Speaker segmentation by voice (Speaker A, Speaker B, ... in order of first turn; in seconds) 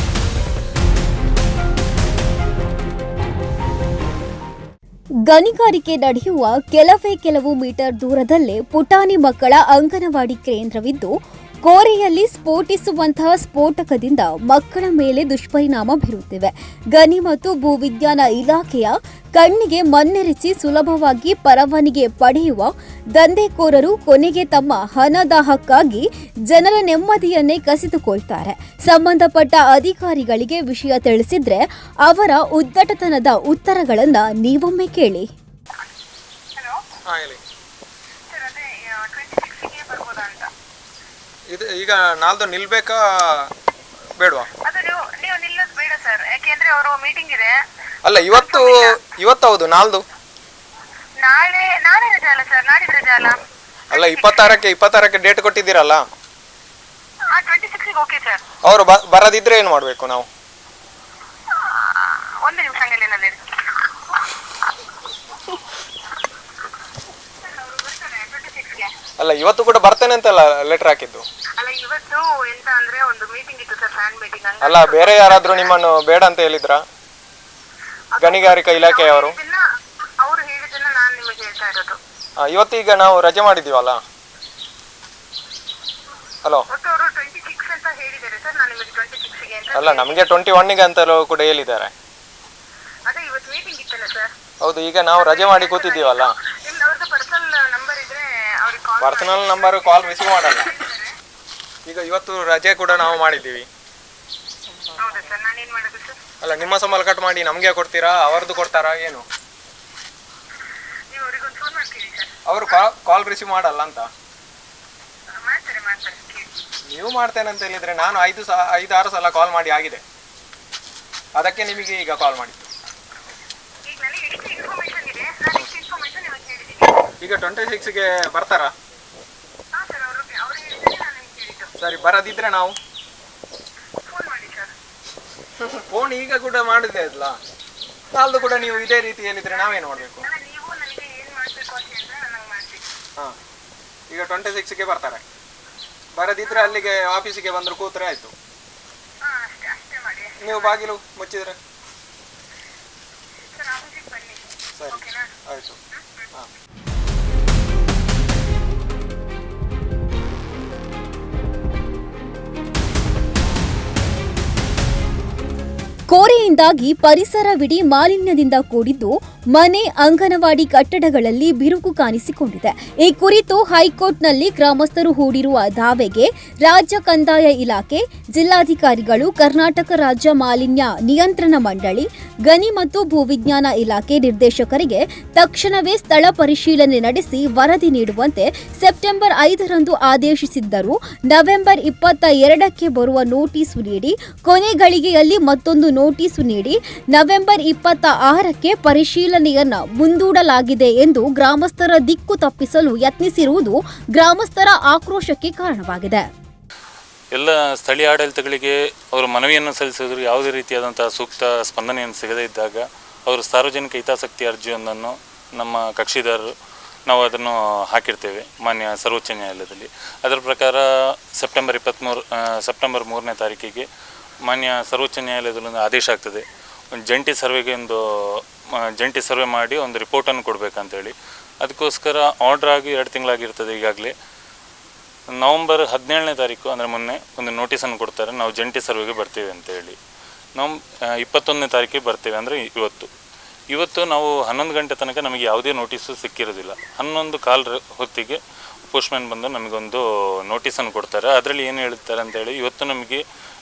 Speaker A: 5.3-11.1, 11.6-35.3, 166.1-206.3
Speaker B: 37.1-37.4, 41.5-43.5, 44.2-44.5, 48.0-50.0, 53.9-56.0, 58.6-60.3, 69.2-71.2, 74.6-76.8, 78.2-79.4, 82.4-84.0, 89.7-91.9, 94.6-96.4, 99.0-100.8, 101.9-103.7, 106.4-109.3, 112.5-114.1, 116.9-120.0, 121.4-122.7, 127.2-128.7, 131.8-132.8, 135.6-137.4, 138.1-140.3, 144.1-145.2, 146.2-148.3, 150.4-151.6, 154.8-155.8
Speaker C: 38.3-40.5, 44.7-47.6, 48.4-48.8, 51.2-53.4, 57.4-58.4, 62.0-63.4, 67.6-68.9, 71.6-75.2, 78.9-79.6, 80.2-82.0, 86.7-90.0, 93.1-94.3, 95.2-99.7, 100.7-101.1, 105.0-106.2, 111.1-112.3, 115.3-116.5, 123.9-127.0, 129.7-131.7, 134.1-134.7, 140.2-142.9, 149.2-150.7, 153.6-155.3, 155.9-156.2
Speaker D: 207.3-216.5, 217.1-220.8, 221.4-223.9, 224.5-226.4, 226.9-228.0, 229.0-234.1, 235.4-240.0, 240.6-243.1, 243.7-248.4, 248.9-253.2